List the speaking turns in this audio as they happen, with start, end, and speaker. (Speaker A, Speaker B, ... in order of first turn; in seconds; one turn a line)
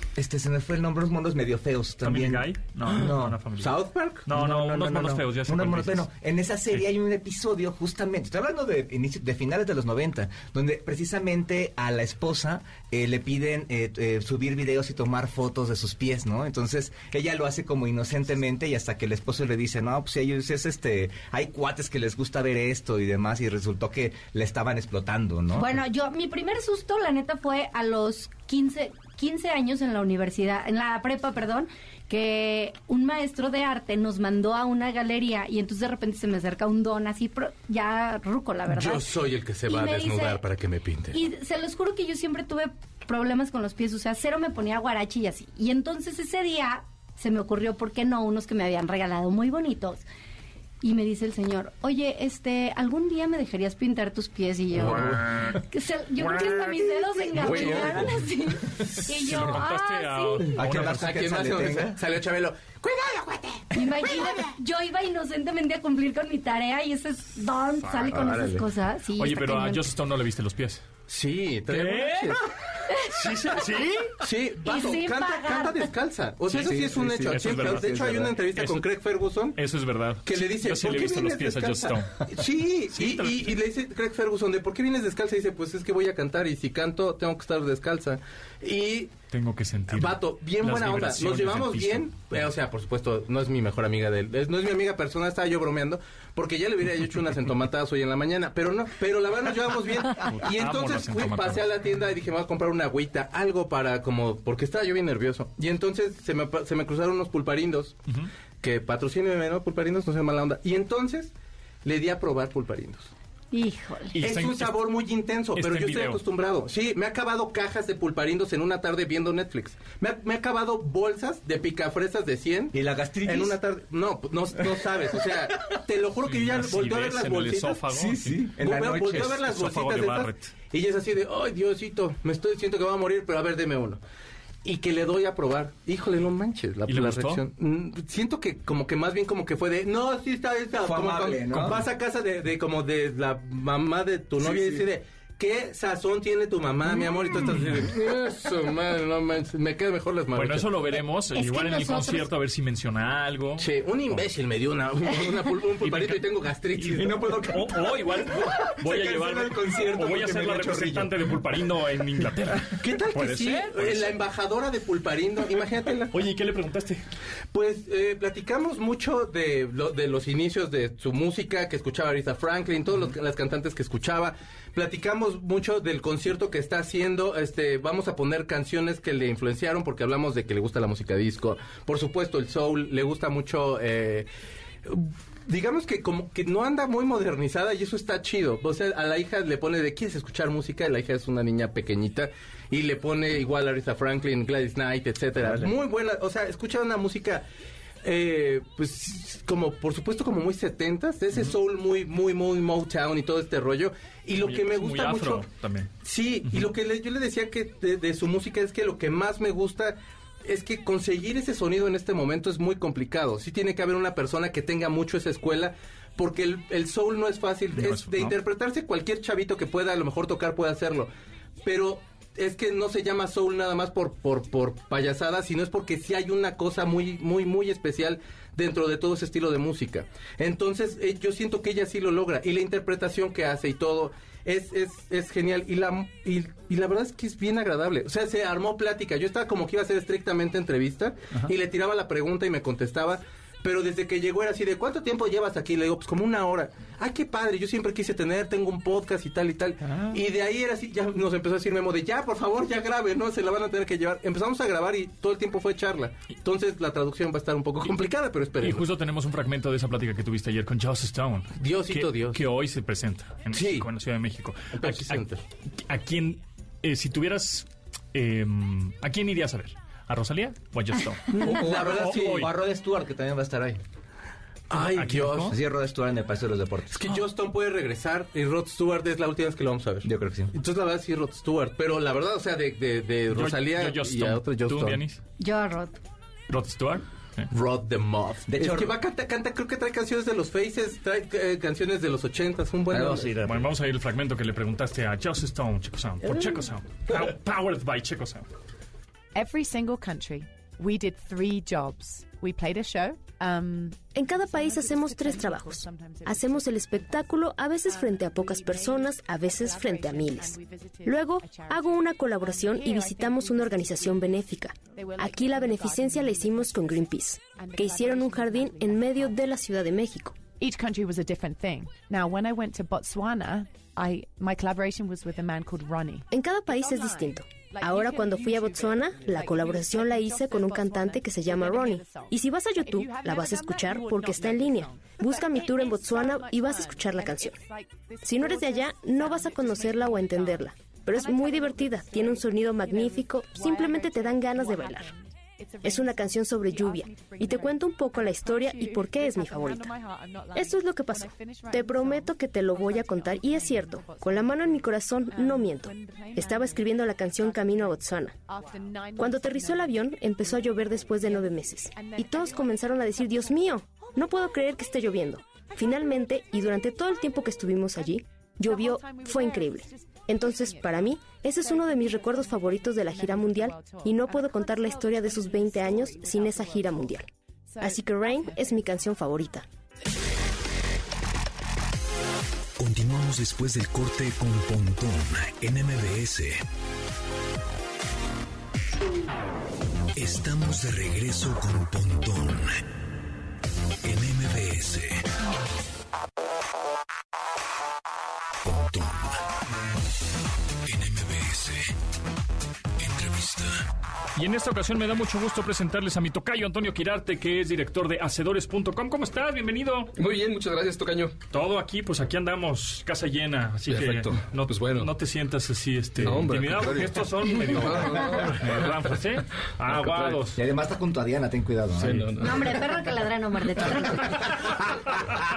Speaker A: 0.2-3.4
Speaker B: 2.0-6.1
Speaker C: 3.6-4.2
Speaker A: 4.3-25.8
Speaker D: 25.6-39.1
Speaker C: 38.7-41.2
Speaker D: 39.7-40.4
Speaker D: 41.1-50.0
Speaker D: 50.8-60.5
Speaker C: 54.8-55.1
Speaker B: 54.9-55.5
Speaker B: 56.2-56.7
Speaker C: 57.4-58.0
Speaker B: 59.2-61.5
Speaker A: 60.5-62.0
Speaker C: 60.8-64.4
Speaker D: 63.7-69.9
Speaker B: 67.8-68.3
Speaker C: 68.1-68.7
Speaker B: 69.2-70.8
Speaker C: 71.1-72.4
Speaker B: 71.7-72.4
Speaker B: 73.1-74.2
Speaker C: 74.2-79.6
Speaker D: 74.6-75.9
Speaker B: 76.5-78.8
Speaker A: 76.6-78.3
Speaker B: 79.5-82.3
Speaker C: 80.2-89.1
Speaker B: 82.9-83.6
Speaker B: 89.3-92.3
Speaker C: 89.9-108.0
Speaker B: 100.2-101.7
Speaker C: 108.6-111.3
Speaker C: 111.8-113.1
Speaker D: 113.5-114.2
Speaker B: 114.1-114.8
Speaker C: 114.2-127.8
Speaker B: 115.5-116.2
Speaker A: 122.7-123.6
Speaker B: 126.2-130.5
Speaker A: 127.9-129.4
Speaker C: 128.6-134.0
Speaker C: 134.6-150.8
Speaker B: 136.9-137.4
Speaker A: 140.8-141.9
Speaker A: 144.4-144.8
Speaker B: 147.4-147.8
Speaker B: 150.3-154.2
Speaker D: 151.3-152.3
Speaker C: 153.6-157.4
Speaker B: 155.8-156.2
Speaker B: 156.8-164.2
Speaker A: 156.9-161.2
Speaker C: 162.8-166.1
Speaker B: 166.1-167.0
Speaker C: 167.5-184.3
Speaker C: 184.8-197.4
Speaker A: 195.4-195.7
Speaker C: 198.0-205.5
Speaker B: 204.4-205.9
Speaker C: 206.0-221.1
Speaker B: 217.8-218.4
Speaker C: 221.6-258.9
Speaker B: 258.6-265.2
Speaker C: 261.6-262.4
Speaker C: 263.5-263.9
Speaker C: 264.7-265.4
Speaker B: 265.8-272.5
Speaker C: 271.3-272.5
Speaker A: 271.4-273.8
Speaker C: 274.7-275.6
Speaker B: 274.7-275.6
Speaker A: 275.5-277.0
Speaker C: 276.9-285.0
Speaker A: 280.0-280.5
Speaker B: 283.3-285.2
Speaker D: 285.4-286.0
Speaker B: 286.5-287.5
Speaker C: 287.5-293.4
Speaker A: 288.5-288.9
Speaker A: 292.9-293.6
Speaker B: 293.4-298.4
Speaker E: 299.3-319.4
Speaker F: 304.1-320.4
Speaker E: 320.6-367.2
Speaker F: 326.3-337.6
Speaker F: 338.2-345.1
Speaker F: 345.8-349.9
Speaker F: 350.5-358.4
Speaker F: 359.2-377.3
Speaker E: 368.0-379.0
Speaker F: 377.8-379.7
Speaker G: 382.8-386.6
Speaker G: 390.1-392.8
Speaker G: 394.0-395.3
Speaker G: 398.6-399.4
Speaker G: 400.8-401.9
Speaker G: 403.0-403.8
Speaker B: 404.4-410.1
Speaker H: 410.2-411.4
Speaker B: 411.5-420.6
Speaker H: 413.9-415.1
Speaker H: 416.2-419.1
Speaker H: 419.9-420.4
Speaker A: 420.6-422.4
Speaker H: 421.9-422.7
Speaker D: 422.4-424.7